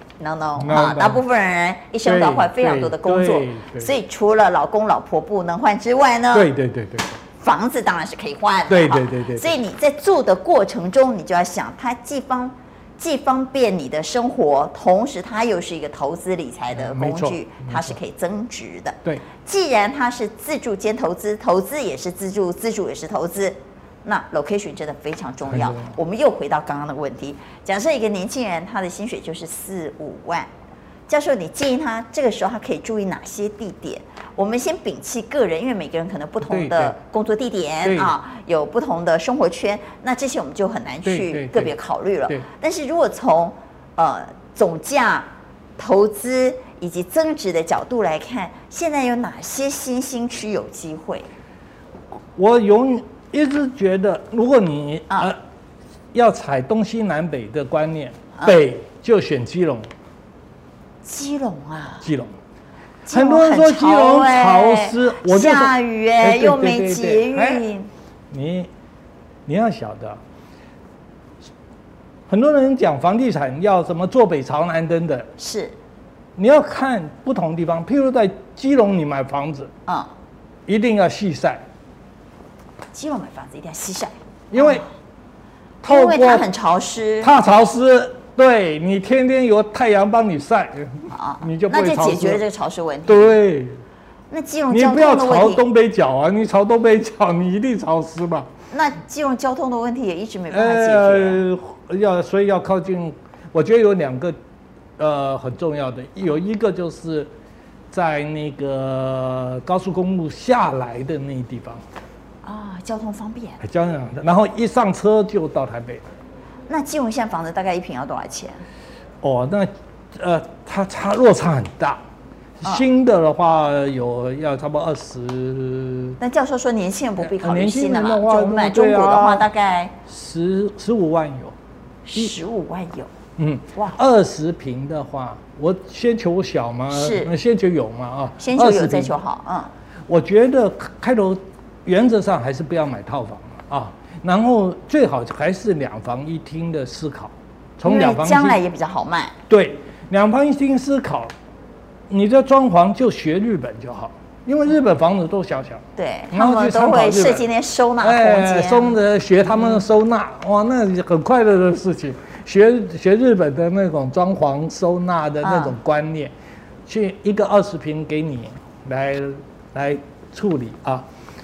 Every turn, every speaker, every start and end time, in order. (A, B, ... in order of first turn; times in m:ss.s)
0:00.2-0:06.5 A
0:00.6-0:01.2 B
0:02.0-0:03.9 B
0:06.3-0:07.2 B
0:07.4-0:30.5 A
0:08.7-0:09.5 B
0:16.7-0:18.0 B
0:25.5-0:25.9 B
0:31.1-0:51.3 A
0:36.4-0:37.0 B
0:37.8-0:38.1 B
0:41.0-0:41.7 B
0:52.3-0:55.4 B
0:56.1-0:59.9 B
1:01.0-1:02.1 A
1:02.0-1:02.3 B
1:03.1-1:07.9 A
1:03.1-1:07.6 B
1:08.3-1:08.7 B
1:09.4-1:10.2 B
1:12.3-1:15.3 B
1:15.4-1:15.8 A
1:16.4-1:19.7 B
1:20.7-1:21.6 B
1:22.9-1:24.8 A
1:24.5-1:24.8 B
1:25.8-1:26.5 B
1:25.9-1:27.3 A
1:27.2-1:32.4 B
1:31.1-1:33.4 A
1:33.1-1:33.8 B
1:34.3-1:35.6 A
1:34.7-1:38.5 B
1:38.7-1:41.4 A
1:40.5-1:44.4 B
1:45.0-1:47.3 B
1:47.9-1:51.8 B
1:52.4-1:53.6 A
1:53.6-1:56.0 B
1:56.7-1:58.6 A
1:59.2-2:02.0 B
2:02.6-2:06.2 B
2:06.2-2:10.0 A
2:07.2-2:09.4 B
2:10.1-2:11.5 B
2:12.0-2:13.1 A
2:13.4-2:19.1 B
2:13.7-2:14.0 A
2:16.9-2:17.3 A
2:18.4-2:19.7 A
2:20.1-2:28.6 B
2:27.8-2:29.3 A
2:29.5-2:31.3 B
2:32.1-2:37.5 B
2:36.0-2:39.0 A
2:38.0-2:46.3 B
2:45.4-2:45.7 A
2:46.9-2:51.0 B